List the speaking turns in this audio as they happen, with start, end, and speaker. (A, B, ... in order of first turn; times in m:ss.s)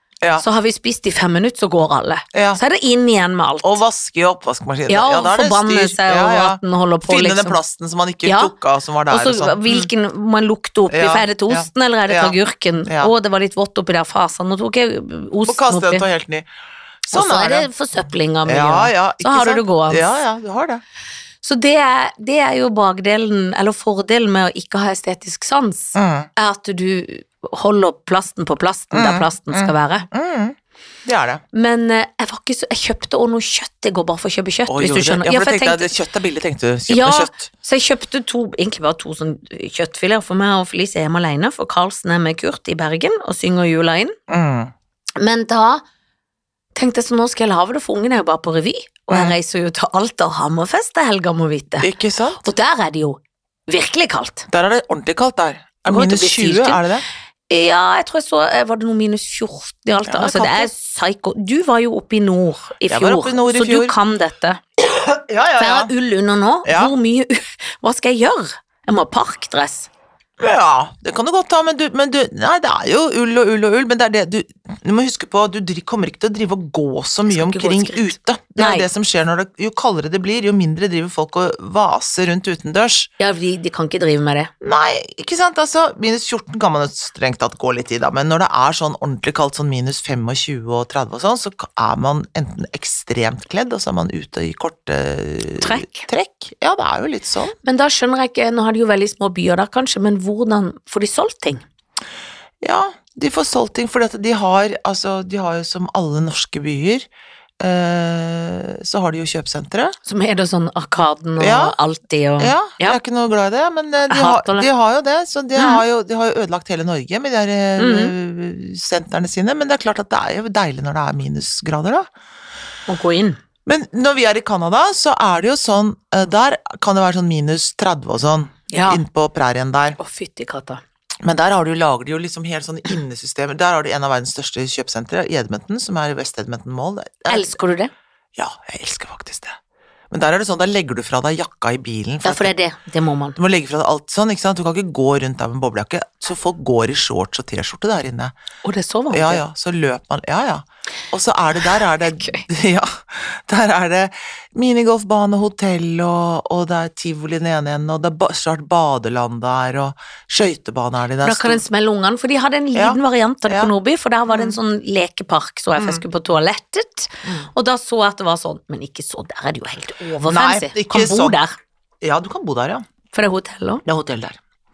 0:00.4-0:03.7 A
0:02.3-0:02.6 B
0:03.6-0:09.9 B
0:04.9-0:07.6 A
0:08.2-0:08.5 A
0:09.1-0:16.0 A
0:10.9-0:13.1 B
0:15.5-0:16.5 B
0:17.0-0:17.7 B
0:17.1-0:20.2 A
0:18.4-0:20.8 B
0:21.4-0:30.1 A
0:26.0-0:26.3 B
0:28.9-0:31.4 B
0:31.5-0:35.9 A
0:34.7-0:37.5 B
0:36.9-0:44.2 A
0:44.3-0:44.7 B
0:45.2-0:45.8 A
0:46.8-0:51.9 A
0:49.1-0:49.4 B
0:51.8-0:52.4 B
0:52.4-0:54.5 A
0:54.5-0:57.0 B
0:55.9-0:56.8 A
0:57.5-1:04.6 A
1:00.1-1:00.7 B
1:02.9-1:04.0 B
1:04.9-1:05.9 B
1:05.6-1:09.9 A
1:06.6-1:06.9 B
1:10.4-1:23.1 B
1:17.3-1:18.9 A
1:23.2-1:24.5 A
1:24.6-1:37.5 B
1:35.6-1:36.1 A
1:37.6-1:41.6 A
1:42.6-1:47.1 B
1:47.6-1:50.0 B
1:50.0-1:53.0 A
1:51.4-1:51.8 B
1:52.4-2:02.1 B
1:54.1-1:54.7 A
1:55.6-1:55.8 A
1:57.8-1:58.1 A
2:02.9-2:03.4 A
2:03.7-2:10.0 B
2:08.7-2:09.0 A
2:10.0-2:10.8 A
2:11.2-2:17.6 B
2:17.3-2:17.9 A
2:18.4-2:19.6 B
2:20.1-2:22.5 B
2:22.2-2:23.4 A
2:23.4-2:28.4 B
2:28.6-2:29.4 A
2:29.1-2:41.6 B
2:32.0-2:32.4 A
2:41.2-2:51.6 A
2:42.8-2:43.7 B
2:44.3-2:44.6 B
2:45.8-2:46.0 B
2:50.2-2:51.4 B
2:52.0-2:52.8 B
2:53.1-2:53.8 A
2:53.9-2:54.4 B